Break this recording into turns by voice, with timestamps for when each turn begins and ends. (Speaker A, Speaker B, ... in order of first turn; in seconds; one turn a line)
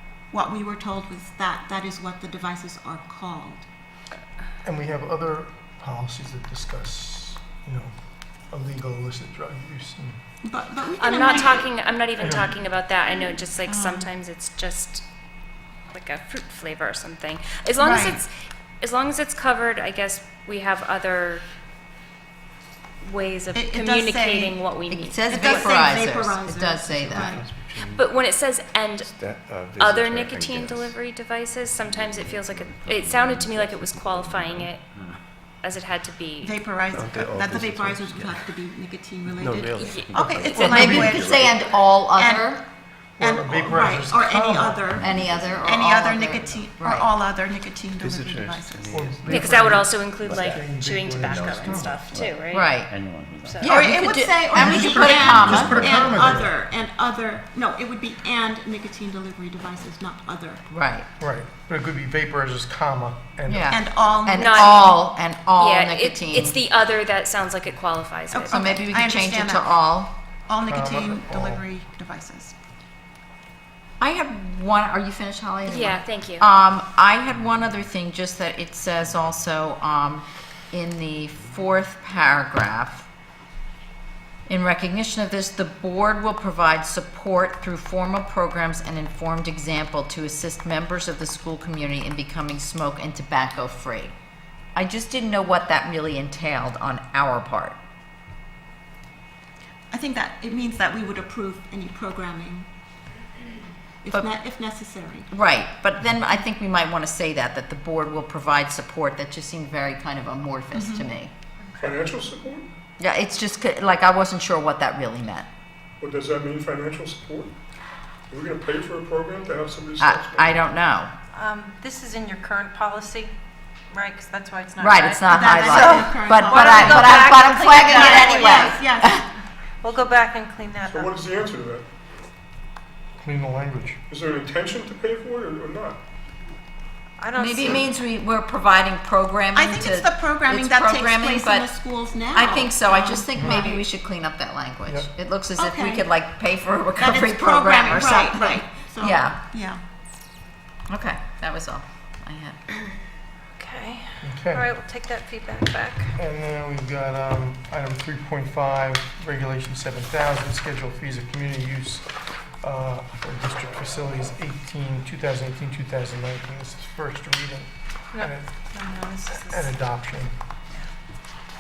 Speaker A: 0.3-3.7
Speaker B: 4.6-10.2
Speaker A: 10.4-11.7
Speaker C: 11.0-15.0
Speaker B: 12.2-12.7
Speaker A: 13.7-14.1
Speaker C: 15.9-18.3
Speaker A: 17.8-18.2
Speaker C: 18.8-21.4
Speaker C: 23.0-25.9
Speaker A: 23.5-24.6
Speaker D: 24.9-27.4
Speaker A: 25.3-27.5
Speaker E: 27.4-28.1
Speaker C: 27.9-29.1
Speaker E: 29.0-31.0
Speaker C: 29.7-34.9
Speaker F: 29.8-30.5
Speaker F: 31.8-35.2
Speaker C: 35.6-36.6
Speaker A: 36.4-41.5
Speaker E: 36.9-38.3
Speaker E: 39.4-41.5
Speaker F: 39.6-41.4
Speaker C: 39.8-40.2
Speaker D: 40.5-42.6
Speaker A: 42.1-42.6
Speaker B: 43.2-44.9
Speaker A: 43.2-49.0
Speaker F: 44.9-45.6
Speaker D: 45.0-47.1
Speaker E: 48.0-50.4
Speaker B: 48.9-52.1
Speaker C: 49.3-52.9
Speaker F: 50.2-50.6
Speaker F: 51.3-53.7
Speaker D: 52.5-52.9
Speaker C: 53.5-53.8
Speaker D: 53.6-55.9
Speaker A: 53.7-60.6
Speaker B: 54.5-56.5
Speaker F: 55.2-55.8
Speaker D: 60.7-61.1
Speaker B: 61.2-63.8
Speaker D: 63.5-66.6
Speaker A: 63.7-65.0
Speaker C: 64.3-65.0
Speaker C: 65.5-68.7
Speaker A: 68.3-69.7
Speaker D: 68.5-70.1
Speaker A: 70.5-72.5
Speaker B: 70.7-71.7
Speaker D: 74.0-83.1
Speaker C: 75.7-76.5
Speaker D: 84.5-94.2
Speaker D: 94.8-97.8
Speaker A: 99.9-102.7
Speaker A: 104.0-105.3
Speaker D: 105.3-111.3
Speaker A: 110.7-111.1
Speaker G: 111.8-112.7
Speaker D: 113.0-115.5
Speaker G: 116.0-117.5
Speaker G: 118.3-120.6
Speaker D: 120.0-121.1
Speaker H: 121.3-123.3
Speaker H: 123.9-128.8
Speaker D: 124.8-129.2
Speaker A: 125.3-129.2
Speaker H: 129.8-131.2
Speaker G: 130.9-131.9
Speaker B: 133.2-134.0
Speaker G: 134.1-136.0
Speaker H: 137.2-137.9
Speaker D: 137.4-141.7
Speaker A: 139.5-143.8
Speaker D: 142.3-149.4
Speaker B: 143.4-143.7
Speaker A: 145.6-146.1
Speaker A: 147.0-149.8
Speaker D: 150.9-152.6
Speaker H: 153.6-156.2
Speaker B: 154.2-154.7
Speaker B: 156.2-162.1
Speaker B: 162.6-168.6
Speaker H: 168.1-169.7
Speaker B: 169.3-170.3